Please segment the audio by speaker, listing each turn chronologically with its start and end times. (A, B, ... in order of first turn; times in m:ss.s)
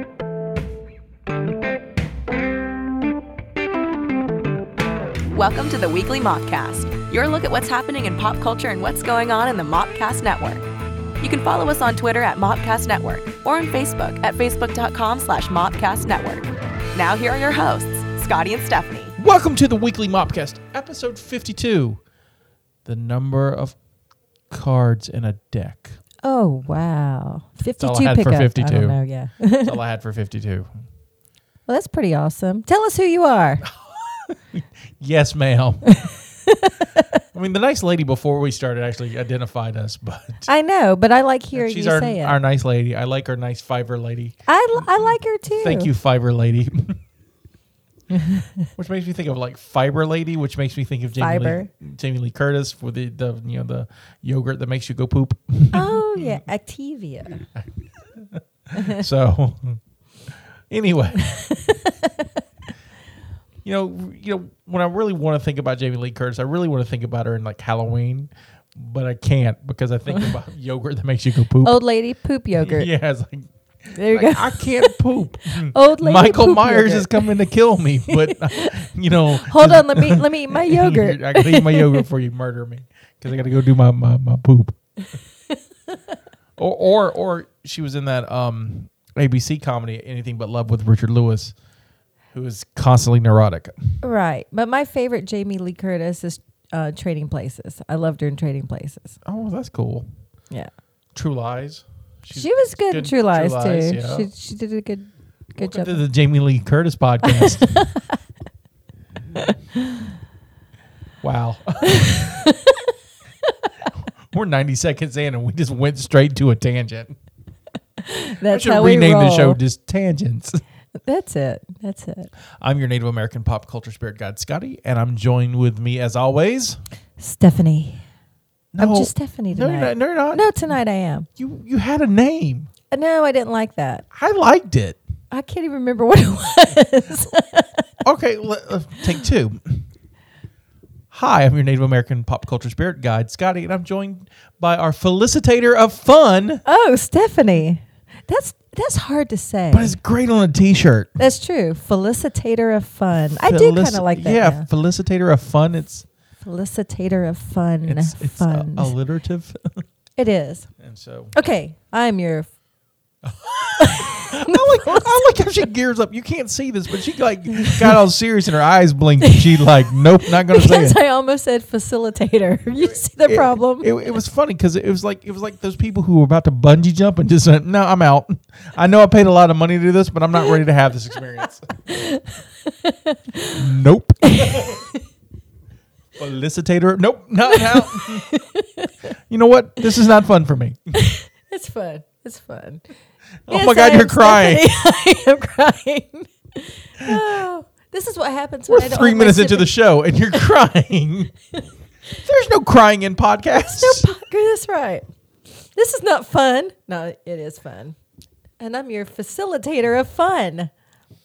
0:05.3-0:10.6 A
0:11.2-0:19.1 A
0:19.2-0:22.0 B
0:22.8-0:23.8 B
0:24.5-0:26.0 B
0:26.2-0:29.8 C
0:27.8-0:29.0 B
0:29.6-0:30.7 B
0:31.7-0:33.6 C
0:33.6-0:36.1 B
0:36.0-0:37.2 C
0:37.3-0:40.5 B
0:40.5-0:42.4 C
0:41.5-0:47.0 B
0:44.5-0:45.9 C
0:48.1-0:48.7 C
0:48.8-0:56.4 B
0:51.2-0:51.7 C
0:55.7-0:57.4 C
0:57.5-1:01.4 B
0:58.8-0:59.0 C
1:01.2-1:02.3 C
1:03.6-1:11.8 B
1:11.6-1:12.9 C
1:12.6-1:24.8 B
1:13.9-1:14.9 C
1:15.6-1:17.3 C
1:18.1-1:22.0 C
1:26.6-1:31.5 B
1:32.3-1:34.0 B
1:34.0-1:39.2 C
1:39.2-1:40.1 B
1:41.1-1:44.3 B
1:42.3-1:46.0 C
1:45.6-1:47.8 B
1:47.2-1:48.2 C
1:49.4-1:50.1 C
1:51.2-1:52.4 B
1:51.8-1:52.9 C
1:54.3-1:57.2 B
1:58.0-1:59.6 C
1:58.4-2:00.6 B
2:01.0-2:02.3 C
2:02.6-2:06.8 B
2:07.2-2:08.0 C
2:08.7-2:10.4 B
2:08.8-2:11.3 C
2:11.4-2:12.7 B
2:12.9-2:14.0 C
2:14.1-2:15.0 B
2:15.3-2:17.8 C
2:18.0-2:19.9 B
2:21.1-2:26.6 B
2:26.6-2:30.0 C
2:29.7-2:31.2 B
2:31.2-2:34.6 C
2:33.3-2:36.1 B
2:36.4-2:38.9 C
2:37.8-2:39.8 B
2:40.2-2:40.7 C
2:40.8-2:41.3 B
2:41.3-2:42.5 C
2:43.2-2:51.0 B
2:43.8-2:45.2 C
2:47.5-2:48.0 C
2:49.2-2:53.9 C
2:53.2-3:01.8 B
3:01.9-3:03.6 C
3:03.5-3:04.8 B
3:04.2-3:05.0 C
3:06.2-3:08.3 B
3:07.5-3:08.9 C
3:09.3-3:10.9 B
3:10.9-3:12.8 C
3:13.5-3:14.7 B
3:13.5-3:19.7 C
3:18.7-3:21.3 B
3:22.2-3:24.1 B
3:23.5-3:25.0 C
3:25.7-3:28.0 C
3:28.6-3:30.7 C